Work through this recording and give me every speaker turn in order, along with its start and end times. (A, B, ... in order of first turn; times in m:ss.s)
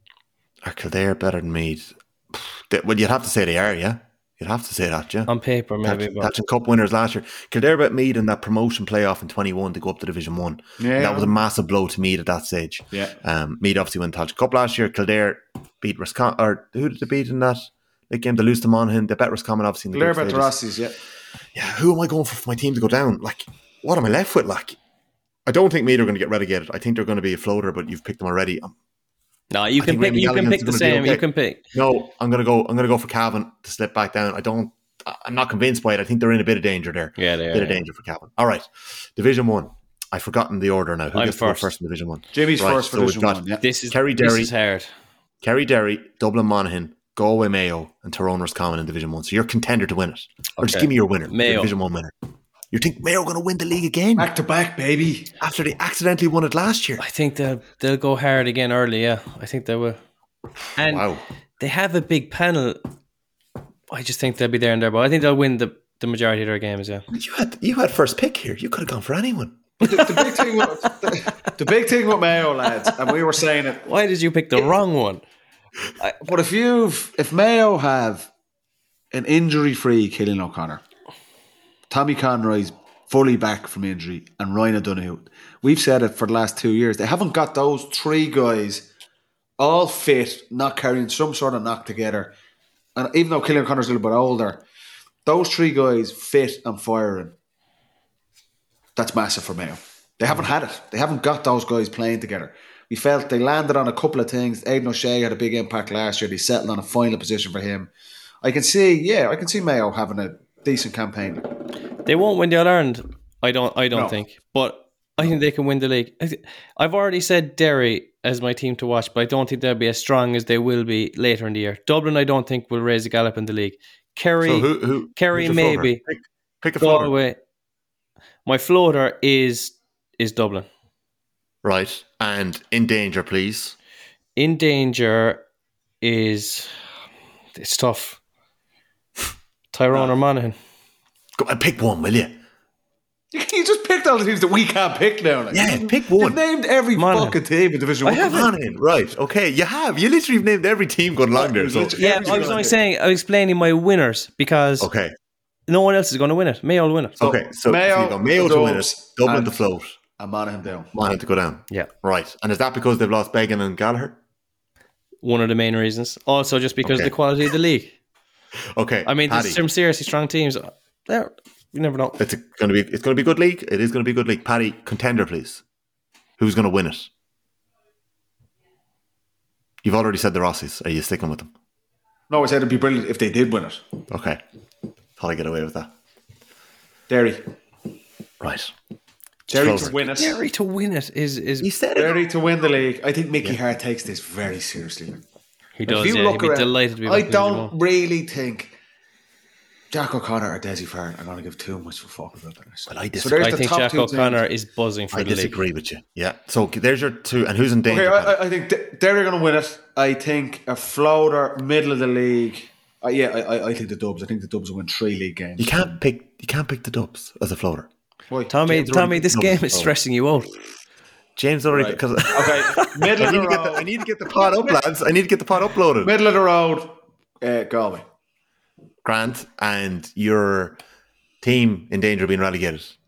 0:00.6-0:05.3 A
0:05.2-0:06.3 B
0:05.8-0:20.5 A
0:10.8-0:11.4 C
0:19.9-0:21.0 C
0:21.5-0:24.8 A
0:25.4-0:28.7 A
0:29.5-0:31.6 B
0:29.8-0:44.5 A
0:37.2-0:37.8 B
0:41.1-0:41.7 B
0:42.3-0:43.6 C
0:43.6-0:44.9 B
0:45.4-0:52.1 A
0:50.6-0:51.7 B
0:52.7-0:54.3 A
0:54.2-0:55.3 C
0:55.4-0:57.0 A
0:57.0-1:00.0 B
1:00.8-1:01.1 B
1:00.8-1:01.2 A
1:01.6-1:02.8 B
1:03.9-1:07.0 B
1:07.1-1:09.8 A
1:09.8-1:13.8 C
1:09.8-1:10.6 B
1:13.8-1:15.2 B
1:16.2-1:18.3 C
1:19.1-1:20.8 C
1:21.9-1:28.9 C
1:29.6-1:32.3 C
1:33.0-1:34.6 C
1:35.2-1:37.3 C
1:39.0-1:47.9 C
1:48.4-1:51.5 C
1:52.0-2:06.0 B
1:53.9-1:54.2 C
2:04.4-2:07.2 A
2:06.8-2:07.4 B
2:08.4-2:10.7 B
2:11.6-2:13.7 A
2:14.4-2:15.4 B
2:16.0-2:16.7 B
2:17.5-2:18.2 B
2:19.7-2:20.6 B
2:21.4-2:22.4 A
2:23.3-2:28.5 C
2:25.5-2:26.4 A
2:27.0-2:27.4 B
2:28.0-2:28.5 B
2:28.2-2:32.6 A
2:31.3-2:32.8 C
2:32.0-2:34.9 B
2:34.8-2:35.1 A
2:35.7-2:37.2 B
2:37.2-2:40.0 A
2:37.2-2:39.6 C
2:40.2-2:40.9 C
2:40.9-2:44.2 A
2:45.2-2:48.0 B
2:46.8-2:47.1 A
2:48.8-2:49.6 A
2:49.0-2:52.2 B
2:52.2-2:55.6 A
2:56.4-2:57.1 A
2:59.8-3:01.5 A
3:02.3-3:03.8 C
3:04.1-3:04.4 A
3:05.2-3:05.9 A
3:07.1-3:07.4 C
3:08.4-3:08.7 A
3:09.5-3:10.4 C
3:09.5-3:11.7 B
3:09.5-3:09.9 A
3:11.6-3:12.2 A
3:12.0-3:15.2 C
3:15.8-3:17.7 B
3:15.8-3:18.7 C
3:19.9-3:24.5 C
3:22.9-3:23.5 A
3:23.4-3:25.6 B
3:25.1-3:28.4 A
3:27.9-3:35.9 C
3:35.6-3:37.9 A
3:38.3-3:39.2 C
3:38.5-3:40.6 B
3:38.7-3:39.9 A
3:41.4-3:46.1 A
3:41.7-3:43.9 C
3:42.6-3:43.1 B
3:44.5-3:44.7 C
3:46.0-3:48.0 C
3:49.0-3:50.8 A
3:51.4-3:52.9 A